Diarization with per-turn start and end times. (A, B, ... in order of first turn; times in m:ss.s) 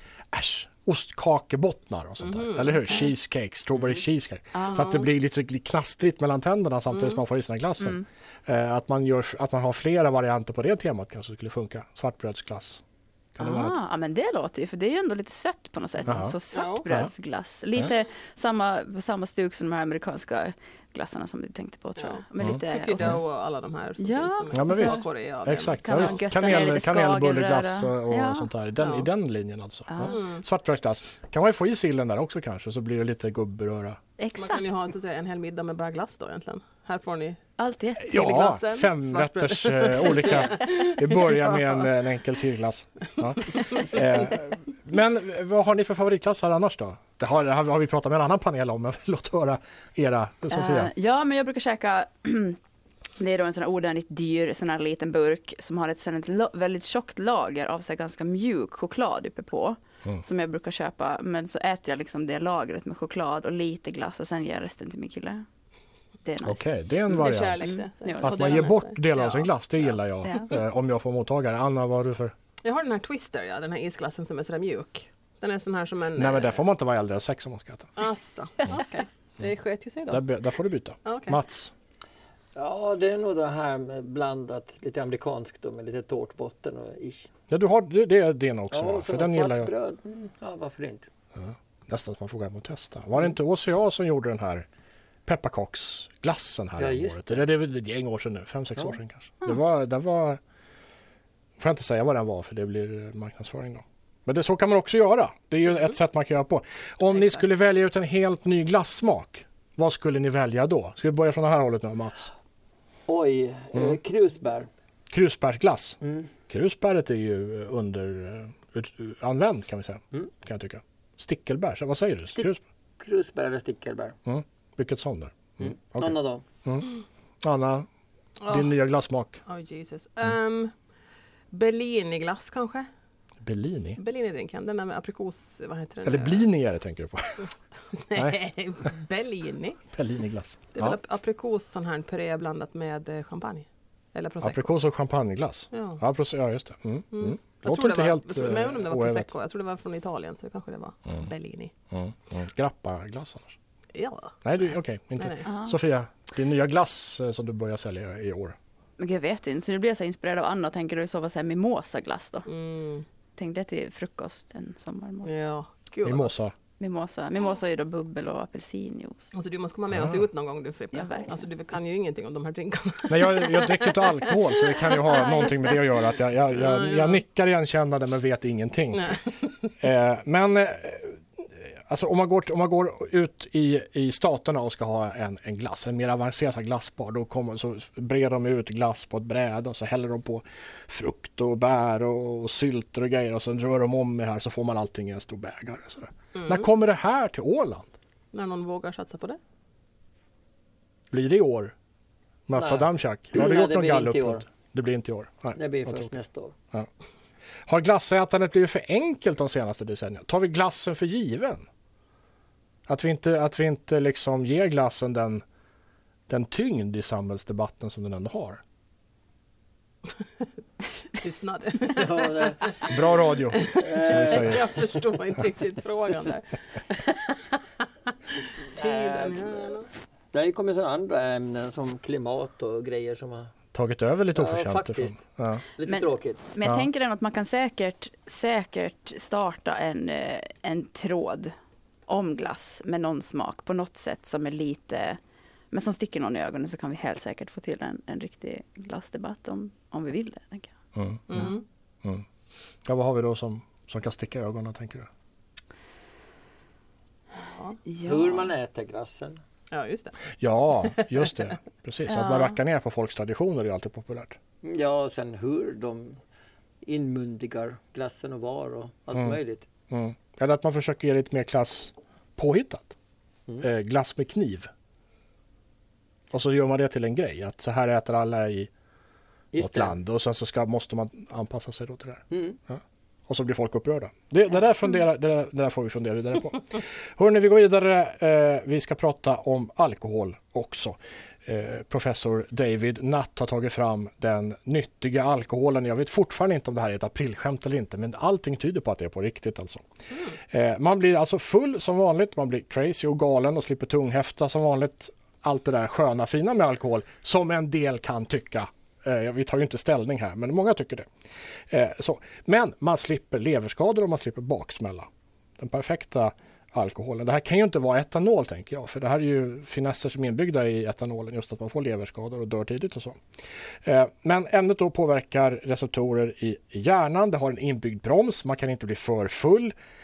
0:00.3-0:12.8 A
0:02.2-0:02.9 B
0:06.9-0:07.2 B
0:07.8-0:08.0 C
0:13.4-0:13.8 A
0:13.4-0:23.1 C
0:16.1-0:16.4 A
0:16.5-0:16.8 B
0:22.0-0:26.3 B
0:22.4-0:23.2 A
0:24.0-0:25.0 C
0:24.5-0:34.0 A
0:25.8-0:28.5 C
0:28.8-0:29.1 B
0:29.9-0:30.2 C
0:30.0-0:30.4 B
0:34.2-0:34.7 C
0:34.4-0:37.4 B
0:37.6-0:38.4 C
0:38.0-0:50.9 A
0:38.1-0:41.8 B
0:50.5-0:52.6 C
0:53.2-1:05.4 C
1:06.2-1:06.7 C
1:06.4-1:12.3 A
1:07.1-1:10.0 B
1:07.6-1:08.6 C
1:12.6-1:16.6 B
1:16.1-1:17.9 A
1:18.0-1:20.2 B
1:20.1-1:21.7 A
1:21.0-1:21.4 B
1:22.5-1:27.3 D
1:27.5-1:29.7 A
1:28.7-1:31.1 D
1:31.3-1:34.6 A
1:35.2-1:40.4 A
1:36.8-1:37.4 D
1:41.6-1:52.3 A
1:53.1-1:54.7 D
1:55.1-2:02.6 A
1:56.0-1:56.3 D
2:03.0-2:04.2 D
2:04.2-2:06.9 A
2:05.6-2:06.4 D
2:07.4-2:07.9 A
2:08.4-2:08.7 B
2:08.5-2:09.4 A
2:09.4-2:10.7 B
2:11.5-2:12.8 B
2:13.4-2:14.0 A
2:14.0-2:16.5 B
2:16.0-2:17.5 A
2:17.9-2:19.8 B
2:19.9-2:21.0 A
2:20.7-2:24.7 B
2:24.4-2:29.3 A
2:25.7-2:26.0 B
2:27.1-2:31.7 B
2:31.9-2:33.5 A
2:33.9-2:34.3 B
2:34.4-2:38.6 A
2:35.2-2:35.5 B
2:35.4-2:35.8 C
2:39.0-2:42.5 C
2:42.5-2:43.0 B
2:43.4-2:45.3 C
2:45.2-2:46.3 B
2:46.0-2:46.5 A
2:46.8-2:49.3 C
2:49.3-2:55.2 B
2:49.9-2:50.2 A
2:50.9-2:51.4 C
2:53.1-2:59.2 A
2:56.6-2:57.2 B
2:59.0-2:59.5 B
2:59.8-3:17.9 A
3:16.4-3:16.7 B
3:18.3-3:19.4 B
3:21.1-3:21.7 A
3:22.5-3:26.1 A
3:22.5-3:24.4 D
3:25.5-3:26.5 D
3:27.7-3:31.6 A
3:32.9-3:35.4 A
3:36.3-3:38.6 A
3:41.1-3:42.9 B
3:42.0-3:42.8 D
3:42.9-3:44.6 A
3:43.5-3:47.6 B
3:43.8-3:44.6 D
3:48.3-3:49.9 B
3:48.8-3:49.7 D
3:50.3-3:53.5 D
3:53.7-3:55.6 A
3:54.3-3:55.2 D
3:55.7-3:56.5 D
3:55.8-4:01.5 C
3:56.6-3:56.9 A
4:02.1-4:05.2 C
4:05.7-4:10.7 C
4:10.9-4:11.5 A
4:11.3-4:11.6 B
4:12.8-4:15.1 A
4:17.3-4:17.8 B
4:17.9-4:18.5 C
4:18.0-4:19.4 D
4:19.7-4:20.2 B
4:20.4-4:24.4 A
4:22.1-4:22.6 C
4:24.6-4:26.2 D
4:26.8-4:29.7 D
4:29.1-4:29.4 A
4:29.9-4:32.9 A
4:33.6-4:34.7 A
4:36.3-4:38.7 A
4:39.5-4:40.0 D
4:39.6-4:59.8 A
4:42.3-4:42.6 D
5:00.4-5:11.1 A
5:11.7-5:15.1 A
5:15.6-5:23.2 A
5:23.8-5:29.7 A